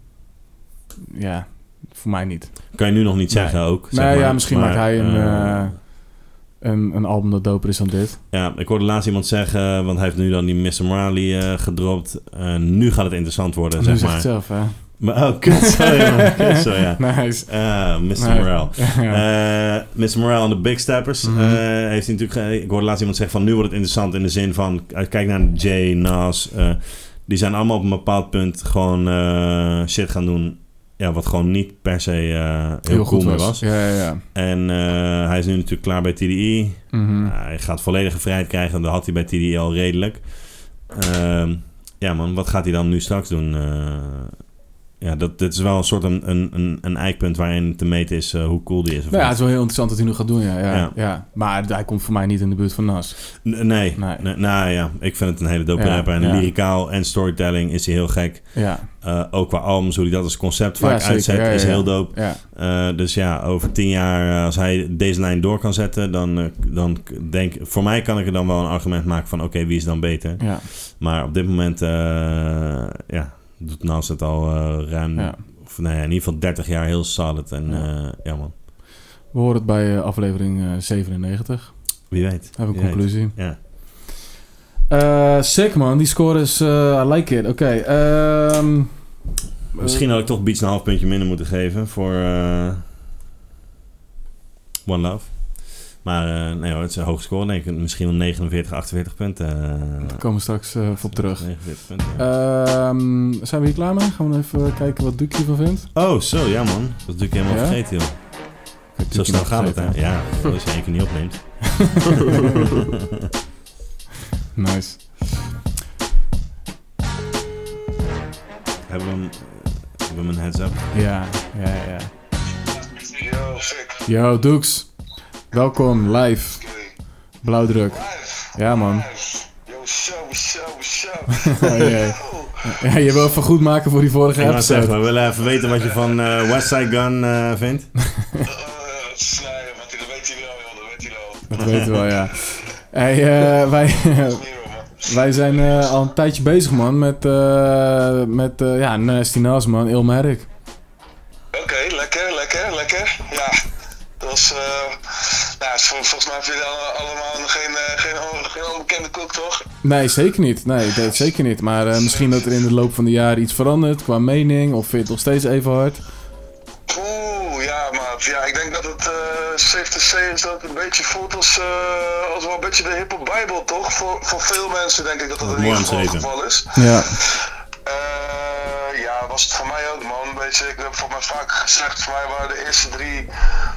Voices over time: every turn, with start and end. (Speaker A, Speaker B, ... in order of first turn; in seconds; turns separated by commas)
Speaker A: 1.1-8.2, Speaker B: 2.7-5.8, Speaker B: 8.3-49.5, Speaker A: 13.8-16.4, Speaker A: 17.0-19.2, Speaker A: 21.2-21.6, Speaker A: 32.9-34.2, Speaker A: 36.9-37.3, Speaker A: 49.1-54.2, Speaker B: 50.7-51.0, Speaker B: 53.4-78.5, Speaker A: 55.8-56.5, Speaker A: 58.5-58.9, Speaker A: 60.8-62.4, Speaker A: 70.4-70.7, Speaker A: 79.3-83.7, Speaker B: 82.1-83.6, Speaker A: 84.9-89.0, Speaker A: 89.7-90.0, Speaker B: 89.8-92.9, Speaker B: 94.9-100.2, Speaker A: 100.0-105.9, Speaker B: 101.1-102.2, Speaker B: 105.9-108.6, Speaker A: 107.5-108.0, Speaker A: 109.0-110.2, Speaker B: 109.1-112.9, Speaker A: 111.8-112.5, Speaker A: 114.5-115.4, Speaker B: 118.9-120.9, Speaker A: 120.9-122.1, Speaker C: 122.8-124.1, Speaker A: 124.0-124.9, Speaker A: 125.5-126.6, Speaker C: 126.6-127.0, Speaker A: 127.4-129.1, Speaker C: 127.9-132.8, Speaker A: 131.4-135.0, Speaker B: 134.4-138.0, Speaker C: 138.4-142.6, Speaker A: 141.5-144.4, Speaker C: 144.2-146.1, Speaker A: 145.0-150.5, Speaker C: 151.5-153.6, Speaker C: 154.2-159.7, Speaker A: 159.8-166.0, Speaker C: 162.0-162.4, Speaker C: 166.9-183.3, Speaker B: 175.4-176.3, Speaker A: 176.8-177.1